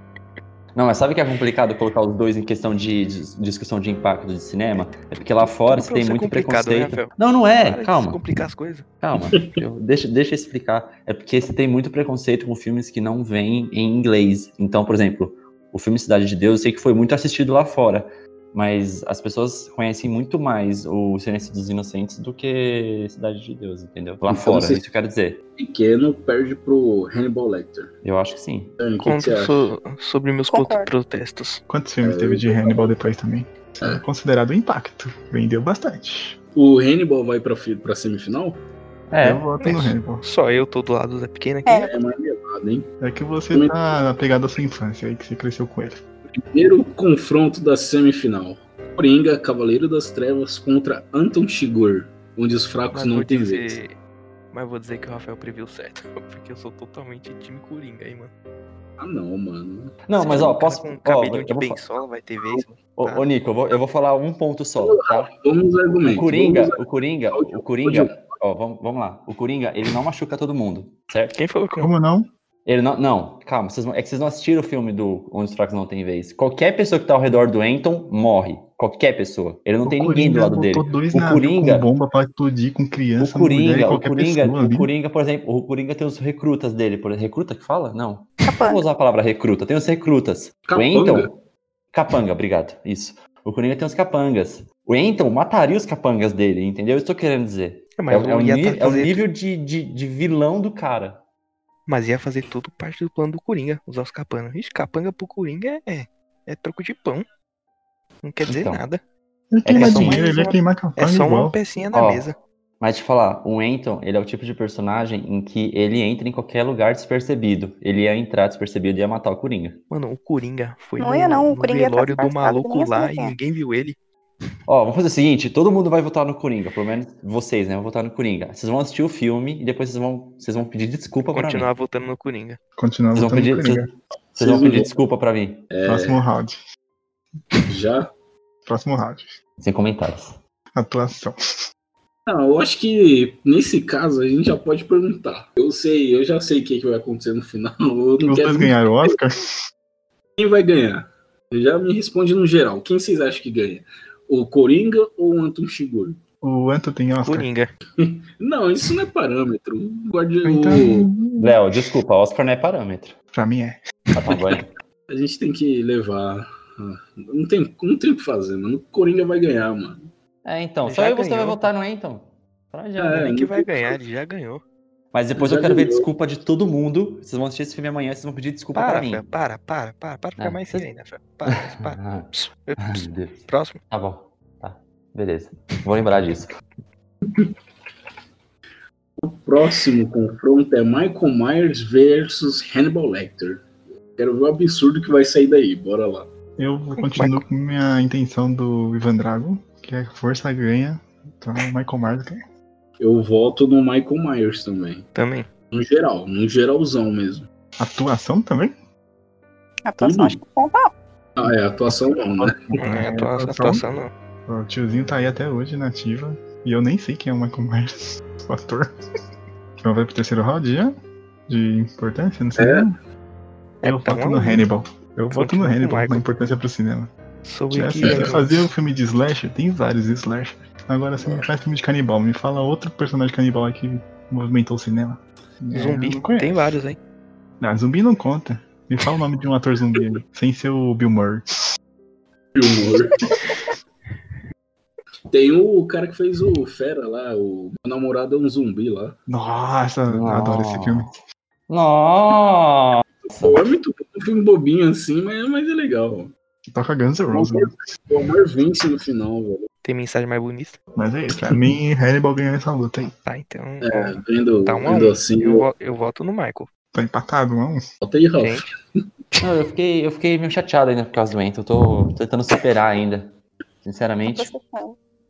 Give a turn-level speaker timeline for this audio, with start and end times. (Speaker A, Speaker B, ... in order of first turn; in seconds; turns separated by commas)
Speaker A: 0.7-8.2, Speaker B: 5.6-8.8, Speaker A: 9.0-25.4, Speaker C: 9.3-9.6, Speaker C: 24.3-24.8, Speaker C: 25.6-27.9, Speaker A: 28.0-28.7, Speaker C: 28.8-29.7, Speaker B: 29.0-31.6, Speaker D: 30.5-30.9, Speaker E: 31.7-36.4, Speaker C: 32.0-32.9, Speaker C: 36.5-38.6, Speaker A: 39.1-39.5, Speaker E: 39.2-40.2, Speaker B: 39.6-41.9, Speaker D: 41.6-41.9, Speaker C: 41.8-42.9, Speaker E: 43.0-46.0, Speaker C: 43.5-44.0, Speaker C: 46.3-53.8, Speaker B: 52.9-53.9, Speaker B: 54.5-58.3, Speaker C: 59.0-60.0, Speaker A: 60.1-61.8, Speaker B: 60.1-63.3, Speaker A: 63.0-65.3, Speaker C: 64.8-68.4, Speaker A: 66.0-71.4, Speaker B: 71.3-71.9, Speaker E: 71.8-72.3, Speaker A: 72.6-81.9, Speaker E: 79.8-84.9, Speaker A: 83.2-91.3, Speaker D: 88.4-88.8, Speaker C: 90.7-91.3, Speaker A: 91.9-101.2, Speaker B: 98.0-99.2, Speaker B: 101.9-107.2, Speaker B: 108.2-109.0, Speaker A: 108.5-108.8, Speaker E: 109.5-111.6, Speaker A: 109.6-110.2, Speaker B: 109.7-112.3, Speaker D: 110.1-110.6, Speaker A: 111.9-112.2, Speaker A: 112.8-119.8, Speaker B: 119.9-124.0, Speaker D: 121.0-123.3, Speaker A: 124.7-131.7, Speaker B: 131.3-132.6, Speaker E: 132.8-133.9, Speaker A: 133.1-135.7, Speaker C: 134.3-134.9, Speaker C: 135.7-136.2, Speaker E: 135.8-136.6, Speaker C: 137.7-138.1, Speaker E: 138.7-139.4, Speaker A: 139.6-140.4, Speaker E: 140.7-141.4, Speaker C: 142.2-148.8, Speaker E: 148.2-149.6, Speaker C: 150.4-156.2, Speaker E: 156.4-157.5, Speaker B: 157.2-157.7, Speaker C: 158.0-161.1, Speaker E: 160.4-161.6, Speaker A: 161.4-163.1, Speaker E: 163.3-163.8, Speaker A: 164.1-164.7, Speaker C: 165.1-170.1, Speaker A: 170.4-173.3, Speaker B: 170.8-171.7, Speaker C: 173.0-174.0, Speaker B: 173.2-174.6, Speaker A: 175.1-179.2, Speaker C: 175.3-176.1, Speaker B: 178.7-183.8, Speaker A: 180.4-180.9, Speaker A: 181.5-186.5, Speaker C: 187.2-187.5, Speaker C: 189.2-193.6, Speaker C: 194.2-196.3, Speaker E: 196.6-202.4, Speaker B: 197.0-197.4, Speaker C: 203.0-205.1, Speaker B: 205.2-205.5, Speaker C: 205.7-207.5, Speaker E: 207.8-208.7, Speaker D: 209.8-210.9, Speaker C: 210.0-210.4, Speaker C: 211.3-212.8, Speaker E: 212.4-213.8, Speaker B: 212.8-214.1, Speaker E: 214.4-218.9, Speaker E: 219.8-220.9, Speaker E: 221.5-222.9, Speaker C: 222.6-222.9, Speaker B: 223.8-224.6, Speaker E: 223.8-227.1, Speaker B: 225.3-226.2, Speaker B: 227.4-228.7, Speaker E: 227.7-236.8, Speaker C: 228.0-228.4, Speaker C: 231.2-231.5, Speaker B: 235.7-237.0, Speaker E: 237.6-241.4, Speaker C: 242.5-243.3, Speaker C: 245.3-249.2, Speaker E: 249.3-251.1, Speaker A: 250.1-251.1, Speaker A: 251.7-253.7, Speaker C: 253.2-256.3, Speaker E: 256.7-257.7, Speaker C: 257.3-259.7, Speaker B: 259.8-260.8, Speaker E: 260.9-263.1, Speaker B: 263.2-266.7, Speaker C: 263.8-265.7, Speaker E: 266.9-267.8, Speaker C: 268.0-268.7, Speaker B: 268.4-268.6, Speaker A: 269.4-273.3, Speaker A: 273.8-274.5, Speaker D: 274.2-274.9